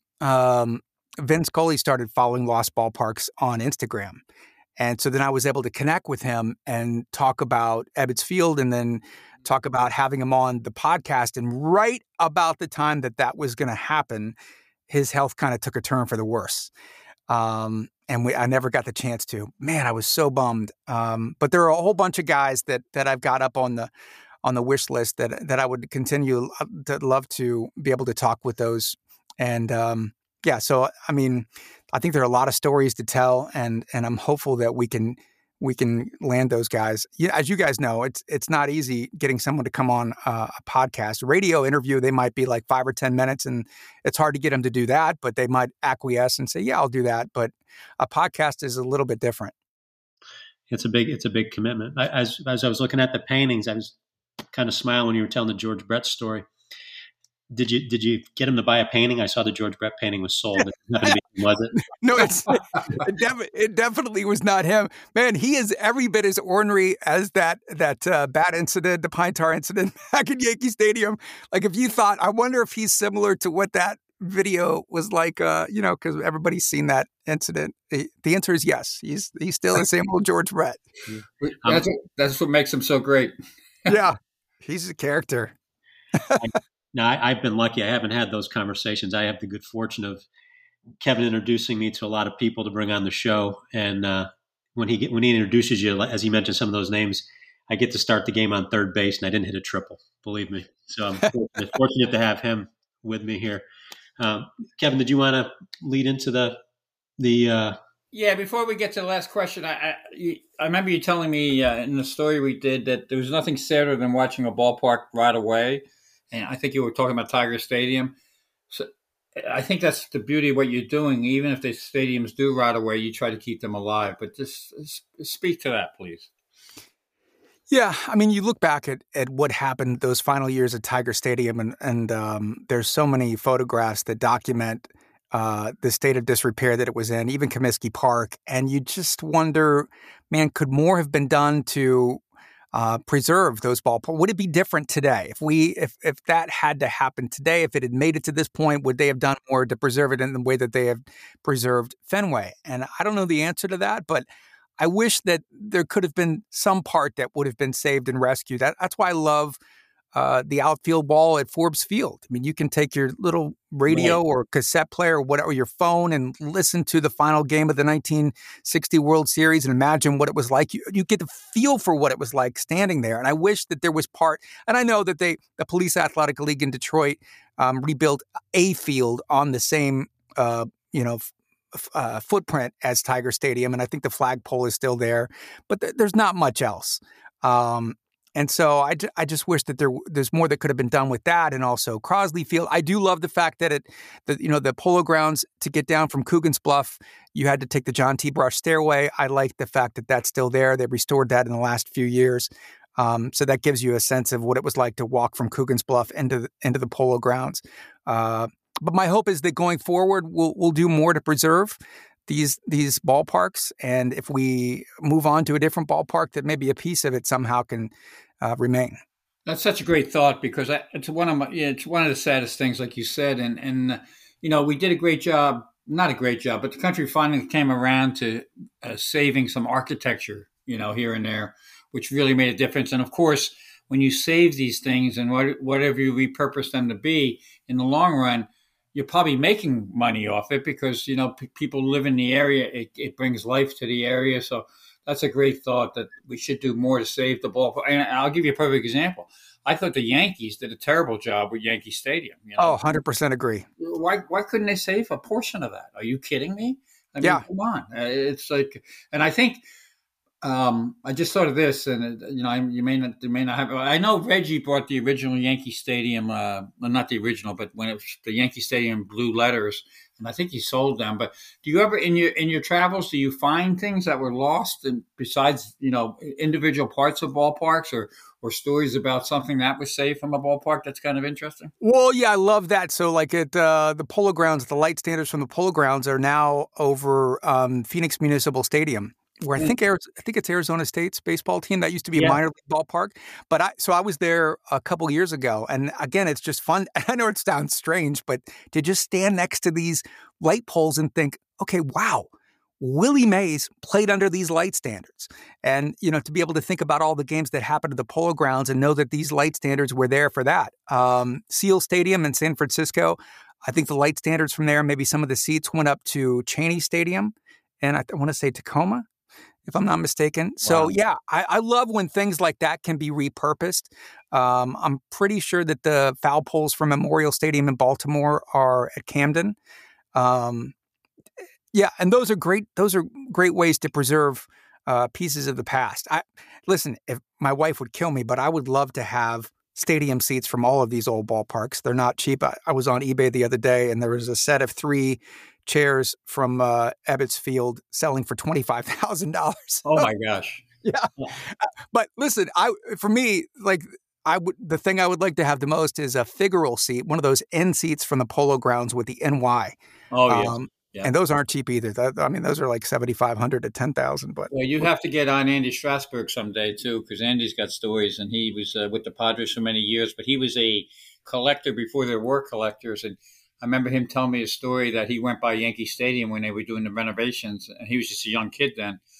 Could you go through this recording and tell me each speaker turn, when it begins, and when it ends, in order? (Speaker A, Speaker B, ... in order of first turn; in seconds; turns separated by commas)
Speaker A: 0.2-4.2, Speaker A: 4.8-14.3, Speaker A: 14.9-16.7, Speaker A: 17.3-23.9, Speaker A: 24.4-49.5, Speaker B: 50.7-54.0, Speaker B: 54.5-56.5, Speaker B: 57.5-61.8, Speaker A: 61.8-80.8, Speaker B: 81.1-81.8, Speaker C: 81.4-83.3, Speaker A: 83.9-85.5, Speaker A: 86.1-86.5, Speaker B: 86.9-90.2, Speaker B: 91.0-103.6, Speaker B: 104.2-106.6, Speaker B: 107.2-107.8, Speaker C: 108.1-118.1, Speaker C: 118.7-126.3, Speaker A: 127.7-142.2, Speaker A: 142.7-154.2, Speaker A: 154.8-159.6, Speaker A: 160.1-219.0, Speaker C: 163.9-164.2, Speaker C: 219.4-252.8, Speaker A: 252.6-253.7, Speaker C: 253.8-259.6, Speaker C: 260.4-281.7, Speaker A: 281.8-302.3, Speaker A: 302.8-319.0, Speaker A: 319.7-329.6, Speaker C: 320.6-320.9, Speaker A: 330.1-330.7, Speaker A: 331.7-350.1, Speaker C: 349.8-350.6, Speaker A: 350.8-359.8, Speaker C: 360.1-361.1, Speaker A: 360.3-364.5, Speaker C: 364.5-379.0